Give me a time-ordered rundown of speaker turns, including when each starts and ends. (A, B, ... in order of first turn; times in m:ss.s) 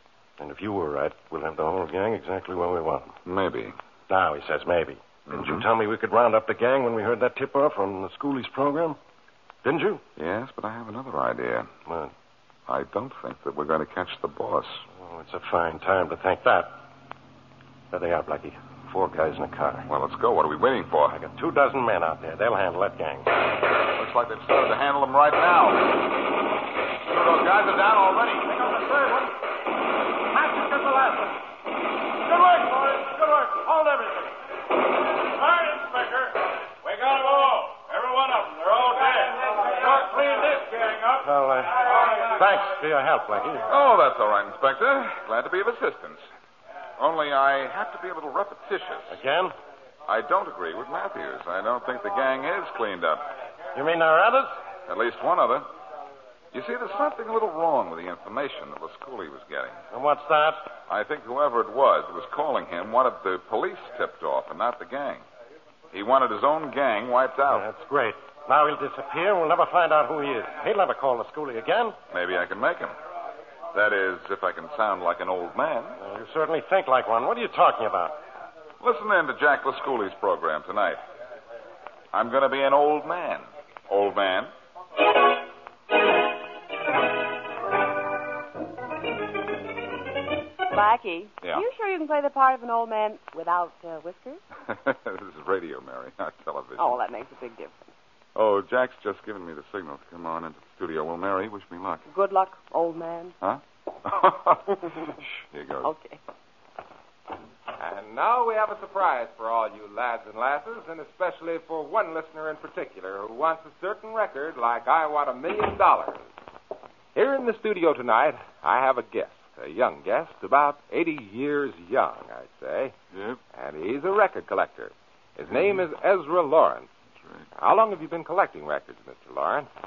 0:00.4-0:03.1 A
0:03.2-0:03.8 B
0:04.1-0:09.0 A
0:05.3-0:05.6 B
0:09.6-0:10.0 A
0:10.2-0:11.7 B
0:11.8-0:12.1 A
0:12.7-0:14.8 B
0:14.9-0:16.7 A
0:17.9-0:19.9 A
0:19.9-0:21.1 B
0:21.1-0:23.3 A
0:23.9-0:25.9 B
0:27.0-0:28.5 B
0:28.5-0:29.3 C
0:30.5-0:31.1 C
0:32.3-0:34.3 C
0:35.5-0:36.3 C
0:38.2-0:41.1 C
0:41.2-0:43.7 A
0:43.7-0:46.2 B
0:47.0-0:49.2 B
0:49.1-0:49.5 A
0:50.1-0:53.2 B
0:53.7-0:54.5 A
0:54.9-0:55.6 B
0:56.5-0:59.8 B
0:59.9-1:00.7 A
1:00.9-1:05.2 B
1:05.9-1:07.7 B
1:07.5-1:12.0 A
1:12.1-1:13.0 B
1:13.7-1:16.0 B
1:16.0-1:18.1 A
1:18.8-1:21.0 B
1:22.1-1:24.5 B
1:30.7-1:34.4 D
1:34.6-1:37.0 B
1:36.8-1:37.7 D
1:38.3-1:42.0 B
1:42.1-1:43.3 D
1:43.4-1:45.9 B
1:45.8-1:46.2 D
1:47.8-1:56.3 E
1:57.1-2:02.9 E
2:03.1-2:03.4 B
2:03.5-2:06.9 E
2:05.5-2:05.8 B
2:07.2-2:07.5 B
2:07.6-2:09.7 E